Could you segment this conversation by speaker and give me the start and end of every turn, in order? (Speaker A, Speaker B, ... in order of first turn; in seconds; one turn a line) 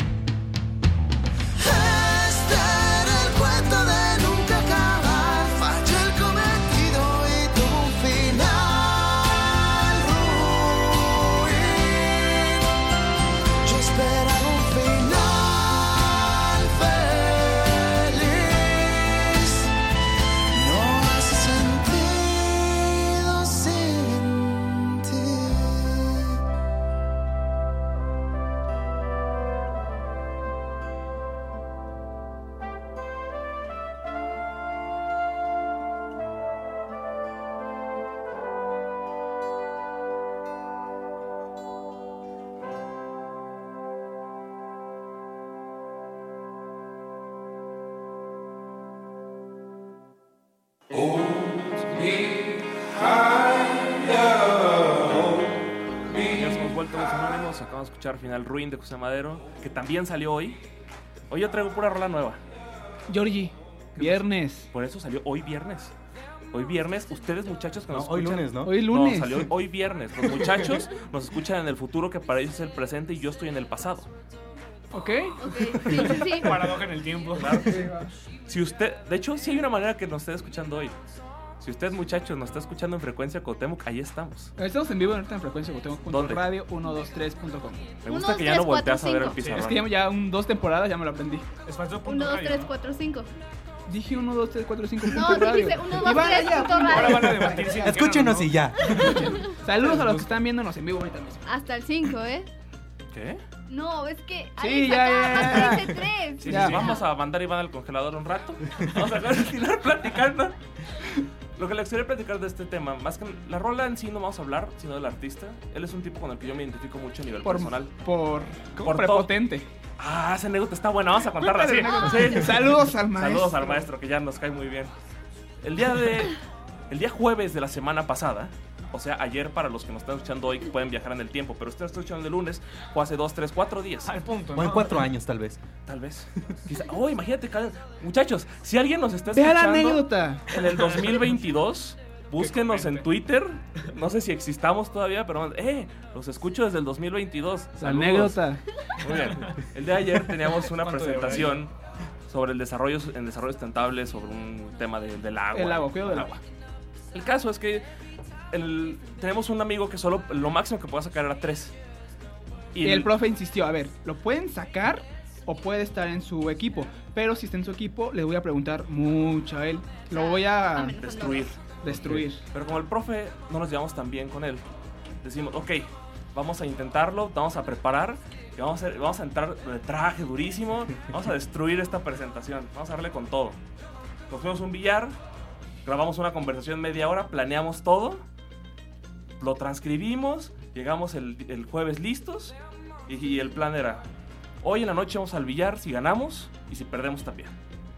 Speaker A: 1.6-12.7
Speaker A: 13.6-19.7
Speaker A: 20.5-26.4
Speaker B: 56.2-60.6
Speaker B: 61.3-62.4
Speaker C: 63.1-64.7
Speaker B: 64.0-65.9
Speaker B: 66.5-74.1
Speaker D: 67.9-68.8
Speaker C: 68.6-69.5
Speaker C: 74.9-75.5
Speaker E: 75.4-76.7
Speaker F: 76.0-77.7
Speaker B: 77.4-77.7
Speaker C: 77.7-78.1
Speaker B: 78.5-81.0
Speaker B: 81.6-84.5
Speaker C: 84.6-87.9
Speaker B: 86.1-86.4
Speaker B: 88.0-89.9
Speaker E: 88.1-89.4
Speaker C: 89.5-91.5
Speaker F: 91.7-92.7
Speaker E: 92.0-93.3
Speaker C: 93.9-97.9
Speaker E: 95.1-97.5
Speaker F: 96.8-99.2
Speaker D: 97.8-99.0
Speaker C: 99.0-101.4
Speaker F: 99.8-100.2
Speaker E: 101.5-102.5
Speaker B: 103.1-103.4
Speaker E: 103.7-107.0
Speaker C: 104.6-106.8
Speaker F: 106.4-106.9
Speaker B: 106.5-110.6
Speaker B: 111.6-117.9
Speaker C: 117.4-119.7
Speaker B: 118.8-119.3
Speaker B: 120.0-124.9
Speaker C: 121.4-123.9
Speaker B: 125.6-126.4
Speaker B: 126.9-134.1
Speaker F: 134.1-135.0
Speaker D: 134.5-135.6
Speaker B: 135.9-148.4
Speaker C: 139.3-140.5
Speaker F: 142.4-143.1
Speaker C: 147.8-148.6
Speaker B: 149.0-151.7
Speaker F: 149.2-149.5
Speaker F: 150.6-151.6
Speaker B: 152.3-156.3
Speaker C: 155.5-156.4
Speaker B: 157.1-157.8
Speaker B: 158.5-161.7
Speaker B: 162.7-163.1
Speaker C: 162.8-171.0
Speaker E: 170.1-171.5
Speaker B: 171.0-171.6
Speaker C: 171.8-172.4
Speaker D: 171.9-172.2
Speaker B: 172.5-174.6
Speaker B: 175.2-183.6
Speaker B: 184.3-185.2
Speaker B: 185.8-188.2
Speaker B: 189.4-192.6
Speaker B: 193.1-194.1
Speaker B: 194.6-197.6